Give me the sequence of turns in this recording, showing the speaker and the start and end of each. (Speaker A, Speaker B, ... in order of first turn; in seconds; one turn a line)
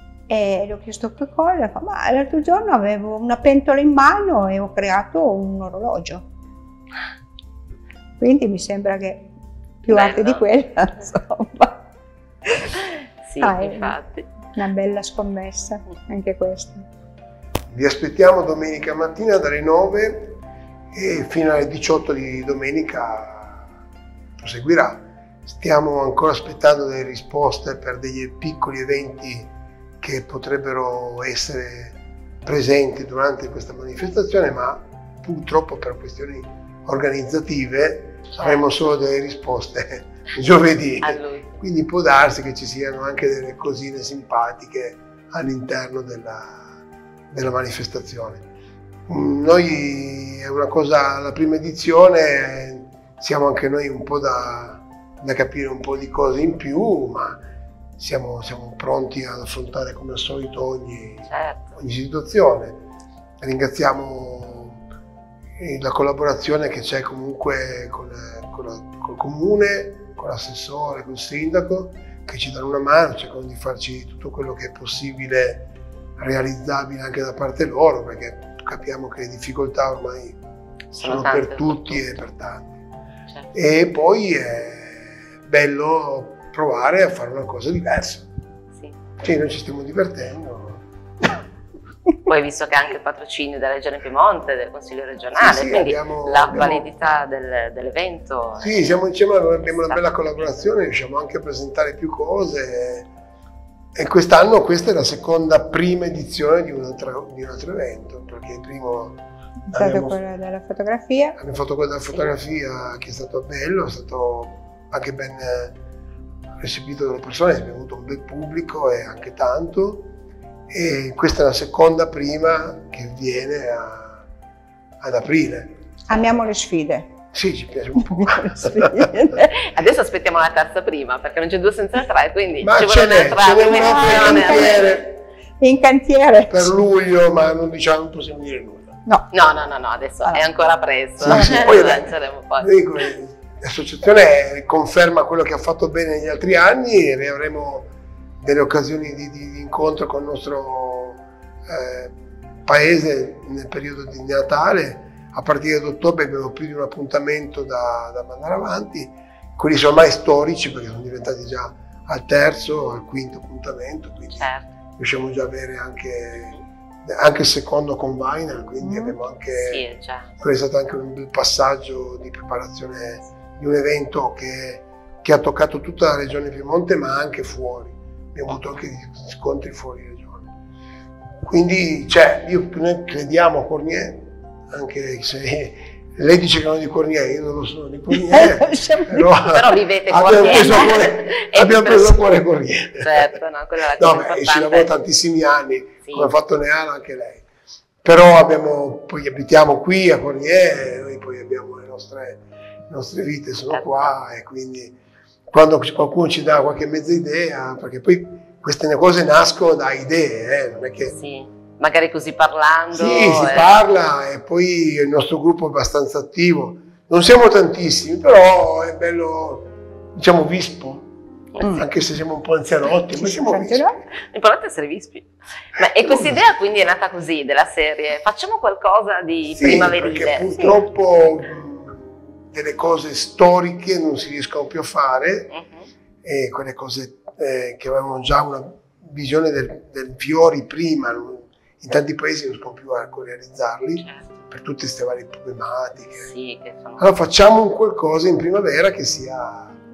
Speaker A: 0.3-6.2
Speaker A: 8.2-9.3
Speaker A: 9.8-11.8
Speaker B: 9.9-10.4
Speaker A: 12.4-12.8
Speaker B: 13.2-14.3
Speaker A: 13.4-14.0
Speaker A: 14.5-16.9
Speaker C: 17.7-20.4
Speaker C: 20.9-23.6
Speaker C: 24.4-46.7
Speaker B: 38.4-38.9
Speaker B: 41.0-41.5
Speaker C: 47.3-48.4
Speaker C: 49.1-57.4
Speaker C: 58.0-62.8
Speaker B: 61.3-61.8
Speaker C: 63.4-64.8
Speaker C: 65.6-75.7
Speaker C: 76.2-80.4
Speaker C: 80.9-82.7
Speaker B: 80.9-82.0
Speaker C: 83.5-88.3
Speaker C: 89.2-90.8
Speaker B: 92.2-99.1
Speaker C: 95.4-96.9
Speaker C: 98.6-103.1
Speaker B: 99.6-100.6
Speaker C: 104.0-109.2
Speaker A: 109.7-111.4
Speaker C: 109.7-110.2
Speaker C: 111.4-115.8
Speaker C: 116.6-120.1
Speaker C: 120.7-124.2
Speaker C: 125.0-125.7
Speaker A: 126.1-127.1
Speaker C: 127.3-129.0
Speaker A: 128.0-129.6
Speaker B: 129.5-135.0
Speaker C: 132.6-135.1
Speaker A: 133.7-136.8
Speaker C: 136.5-138.9
Speaker B: 139.3-142.7
Speaker C: 141.2-164.5
Speaker A: 141.2-141.7
Speaker B: 164.4-164.7
Speaker C: 165.0-166.6
Speaker C: 167.1-169.8
Speaker A: 168.8-169.2
Speaker B: 169.5-170.3
Speaker C: 170.4-180.5
Speaker C: 181.5-193.3
Speaker A: 188.1-189.3
Speaker B: 189.5-192.3
Speaker A: 190.5-191.0
Speaker B: 193.0-194.9
Speaker C: 194.0-197.4
Speaker B: 196.0-196.3
Speaker C: 198.0-204.9
Speaker C: 205.5-211.2
Speaker B: 211.1-213.8
Speaker C: 212.9-221.1
Speaker A: 221.6-221.9
Speaker C: 221.7-224.1
Speaker A: 222.9-224.0
Speaker B: 224.2-230.8
Speaker C: 226.0-226.4
Speaker C: 229.6-235.5
Speaker A: 230.4-230.8
Speaker B: 235.5-235.9
Speaker C: 236.2-246.3
Speaker B: 244.0-244.3
Speaker B: 246.2-247.1
Speaker C: 247.0-249.8